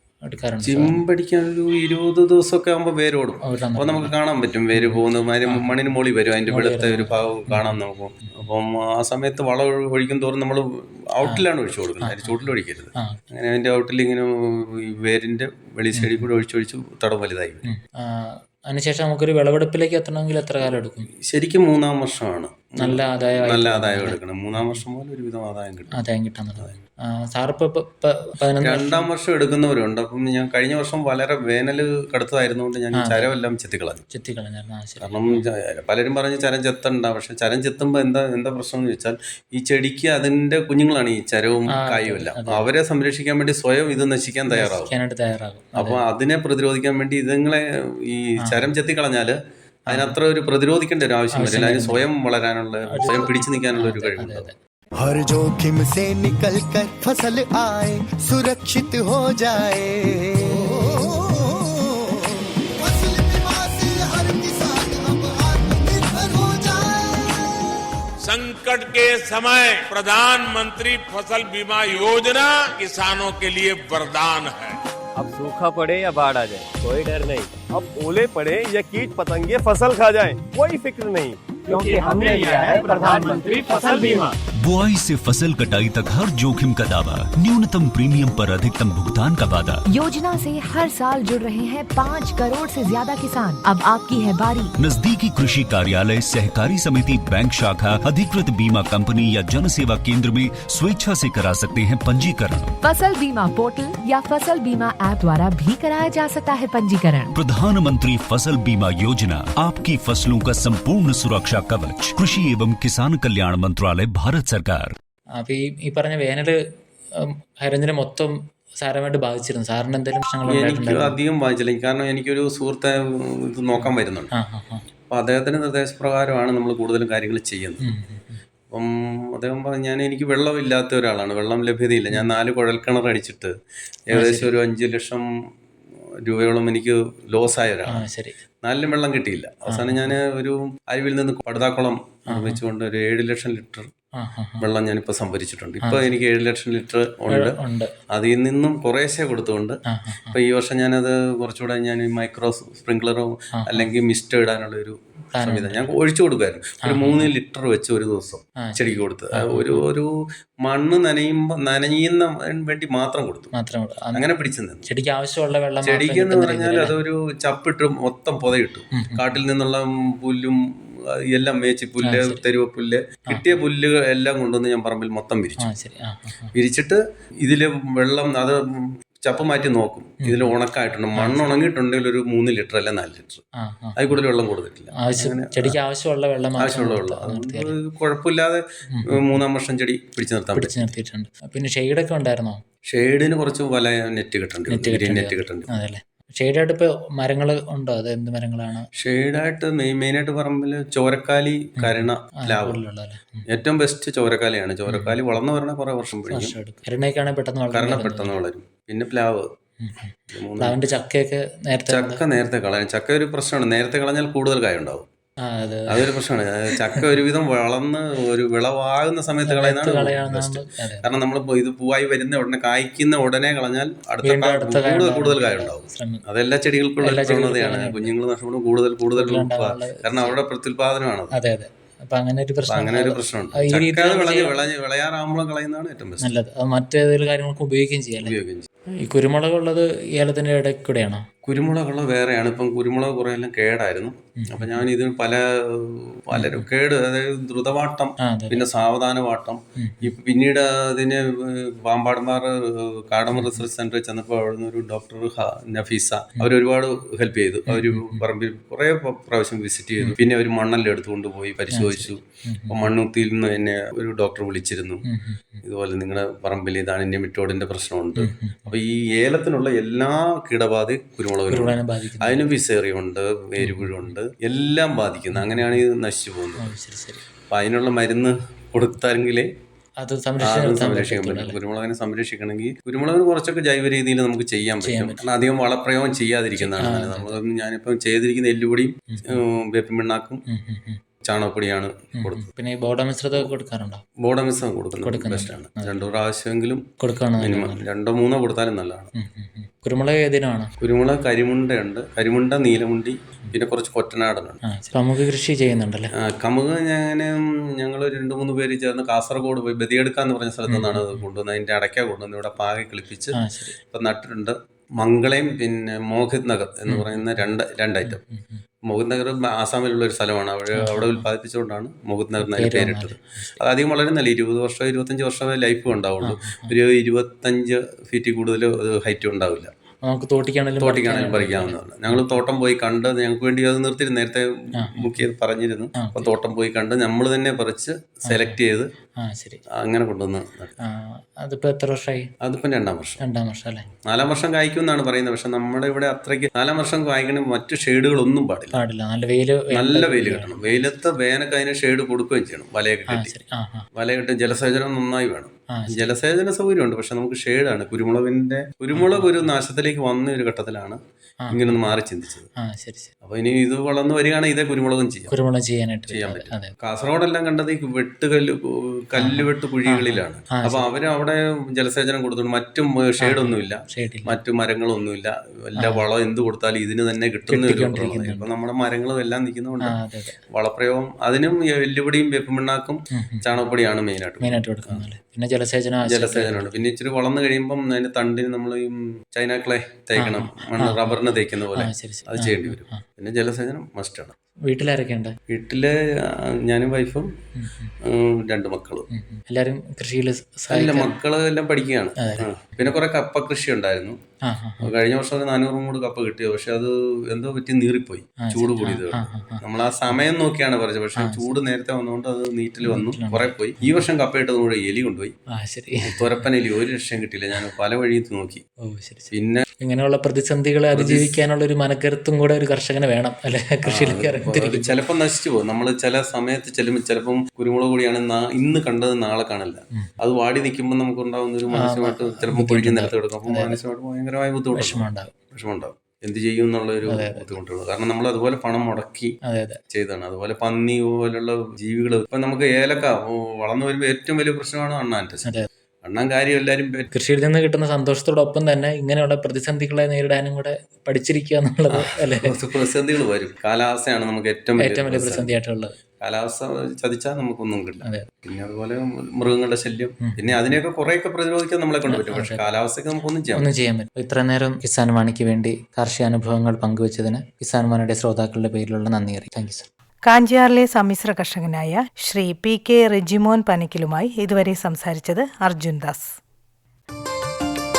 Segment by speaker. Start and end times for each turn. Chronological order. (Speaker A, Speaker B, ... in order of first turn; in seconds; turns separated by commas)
Speaker A: 0.3-1.0, Speaker B: 0.6-17.6, Speaker A: 3.4-4.1, Speaker A: 4.7-5.7, Speaker A: 6.5-7.7, Speaker A: 12.0-12.4, Speaker A: 15.9-16.2, Speaker A: 17.7-21.1, Speaker B: 21.2-26.0, Speaker A: 22.8-24.8, Speaker A: 25.9-29.0, Speaker B: 28.6-34.0, Speaker A: 33.0-33.3, Speaker A: 34.1-35.4, Speaker B: 35.0-44.9, Speaker A: 41.7-42.7, Speaker A: 44.5-46.0, Speaker B: 45.8-49.4, Speaker A: 49.9-50.1, Speaker B: 49.9-54.5, Speaker A: 51.4-52.0, Speaker A: 52.9-54.5, Speaker C: 55.0-62.3, Speaker C: 62.8-67.5, Speaker D: 68.2-74.8, Speaker E: 75.2-84.3, Speaker D: 81.7-84.0, Speaker F: 84.6-89.8, Speaker G: 89.9-94.7, Speaker F: 94.8-102.7, Speaker G: 102.8-107.3, Speaker F: 107.3-114.9, Speaker A: 115.4-116.6, Speaker A: 117.2-121.1, Speaker B: 120.5-124.3, Speaker A: 123.8-124.8, Speaker B: 125.1-127.8, Speaker A: 127.8-128.4, Speaker B: 128.7-133.5, Speaker A: 134.1-134.5, Speaker B: 134.1-135.2, Speaker B: 136.2-138.1, Speaker A: 137.9-138.3, Speaker B: 138.6-143.9, Speaker A: 139.7-140.1, Speaker A: 142.3-142.6, Speaker A: 144.2-144.6, Speaker B: 144.6-147.6, Speaker A: 145.8-146.1, Speaker A: 147.3-147.9, Speaker B: 148.1-149.8, Speaker A: 149.9-150.4, Speaker B: 150.3-160.1, Speaker A: 153.6-153.9, Speaker A: 155.3-155.9, Speaker A: 156.8-157.3, Speaker A: 158.6-159.8, Speaker B: 160.6-163.5, Speaker A: 163.5-164.2, Speaker B: 164.1-164.8, Speaker A: 164.9-166.9, Speaker B: 165.8-170.6, Speaker A: 169.0-169.3, Speaker B: 171.1-175.7, Speaker A: 172.0-172.4, Speaker A: 173.3-173.6, Speaker A: 175.6-176.5, Speaker B: 176.5-183.4, Speaker A: 180.2-180.5, Speaker A: 181.2-181.6, Speaker A: 183.6-184.2, Speaker B: 184.0-185.8, Speaker A: 185.0-187.7, Speaker B: 186.6-190.9, Speaker A: 188.9-189.4, Speaker A: 190.6-192.6, Speaker B: 192.9-195.7, Speaker A: 194.7-198.9, Speaker B: 199.0-202.8, Speaker A: 201.8-203.4, Speaker B: 203.5-206.5, Speaker A: 204.9-205.2, Speaker A: 206.3-208.3, Speaker B: 207.7-209.5, Speaker A: 209.8-212.2, Speaker B: 210.3-210.8, Speaker B: 211.9-215.0, Speaker A: 215.4-216.1, Speaker B: 215.9-231.3, Speaker A: 216.7-217.1, Speaker A: 219.4-221.1, Speaker A: 224.2-226.2, Speaker A: 227.0-228.1, Speaker A: 229.1-230.4, Speaker A: 231.3-234.6, Speaker B: 232.7-236.3, Speaker A: 236.2-238.3, Speaker B: 238.2-238.7, Speaker A: 239.0-241.3, Speaker B: 241.4-265.0, Speaker A: 244.4-244.8, Speaker A: 246.3-246.7, Speaker A: 248.3-248.6, Speaker A: 249.8-250.1, Speaker A: 253.3-253.6, Speaker A: 257.7-258.2, Speaker A: 261.7-262.8, Speaker A: 265.1-265.6, Speaker B: 265.6-276.7, Speaker A: 268.2-268.8, Speaker A: 271.5-272.4, Speaker A: 273.6-274.1, Speaker A: 275.3-275.8, Speaker A: 276.6-277.2, Speaker B: 277.5-279.5, Speaker A: 280.0-281.6, Speaker B: 280.4-290.4, Speaker A: 284.8-285.2, Speaker A: 286.6-287.4, Speaker A: 289.1-289.4, Speaker A: 290.5-291.0, Speaker B: 291.2-292.5, Speaker A: 292.2-294.0, Speaker B: 294.2-296.9, Speaker A: 295.0-296.0, Speaker A: 297.0-297.8, Speaker B: 297.4-299.1, Speaker A: 299.1-300.7, Speaker B: 300.8-304.6, Speaker A: 304.7-306.1, Speaker B: 306.2-313.4, Speaker A: 310.7-311.2, Speaker A: 313.4-313.8, Speaker B: 313.9-318.2, Speaker A: 316.9-317.4, Speaker A: 318.1-318.6, Speaker B: 318.9-329.7, Speaker A: 320.8-321.2, Speaker A: 322.4-323.6, Speaker A: 326.3-326.7, Speaker A: 330.0-332.4, Speaker B: 330.8-338.9, Speaker A: 334.8-335.2, Speaker A: 336.0-336.3, Speaker A: 338.3-338.6, Speaker A: 339.2-339.6, Speaker B: 339.8-340.8, Speaker A: 340.8-342.3, Speaker B: 342.4-343.2, Speaker A: 343.2-343.9, Speaker B: 344.1-348.8, Speaker A: 348.7-350.9, Speaker B: 349.7-353.3, Speaker A: 353.1-353.9, Speaker B: 353.9-361.0, Speaker A: 355.7-356.1, Speaker A: 358.9-359.5, Speaker A: 361.4-361.9, Speaker B: 361.5-362.5, Speaker A: 362.6-363.1, Speaker B: 363.2-365.3, Speaker A: 365.3-366.7, Speaker B: 366.1-380.0, Speaker A: 369.1-370.8, Speaker A: 373.2-374.3, Speaker A: 375.8-376.0, Speaker A: 377.5-378.5, Speaker A: 379.9-380.4, Speaker B: 380.5-385.0, Speaker A: 383.1-383.5, Speaker A: 384.4-386.7, Speaker B: 386.0-394.3, Speaker A: 390.2-393.0, Speaker A: 394.7-395.4, Speaker B: 395.5-395.9, Speaker B: 396.6-397.3, Speaker A: 397.6-397.9, Speaker B: 398.1-399.1, Speaker A: 399.1-401.1, Speaker B: 400.7-404.2, Speaker A: 402.2-402.9, Speaker A: 404.4-404.9, Speaker B: 404.8-415.3, Speaker A: 408.4-410.2, Speaker A: 411.2-411.5, Speaker A: 412.9-414.1, Speaker A: 415.6-416.3, Speaker B: 416.1-418.6, Speaker A: 418.8-424.9, Speaker B: 419.3-419.6, Speaker B: 420.9-421.4, Speaker B: 423.9-439.3, Speaker A: 431.7-433.8, Speaker A: 434.7-435.3, Speaker A: 437.1-437.5, Speaker A: 439.5-439.8, Speaker B: 439.9-445.5, Speaker B: 446.0-447.1, Speaker A: 447.1-452.5, Speaker B: 452.0-455.5, Speaker A: 454.8-455.9, Speaker B: 456.2-463.7, Speaker A: 462.1-462.6, Speaker A: 463.5-469.9, Speaker H: 470.3-476.4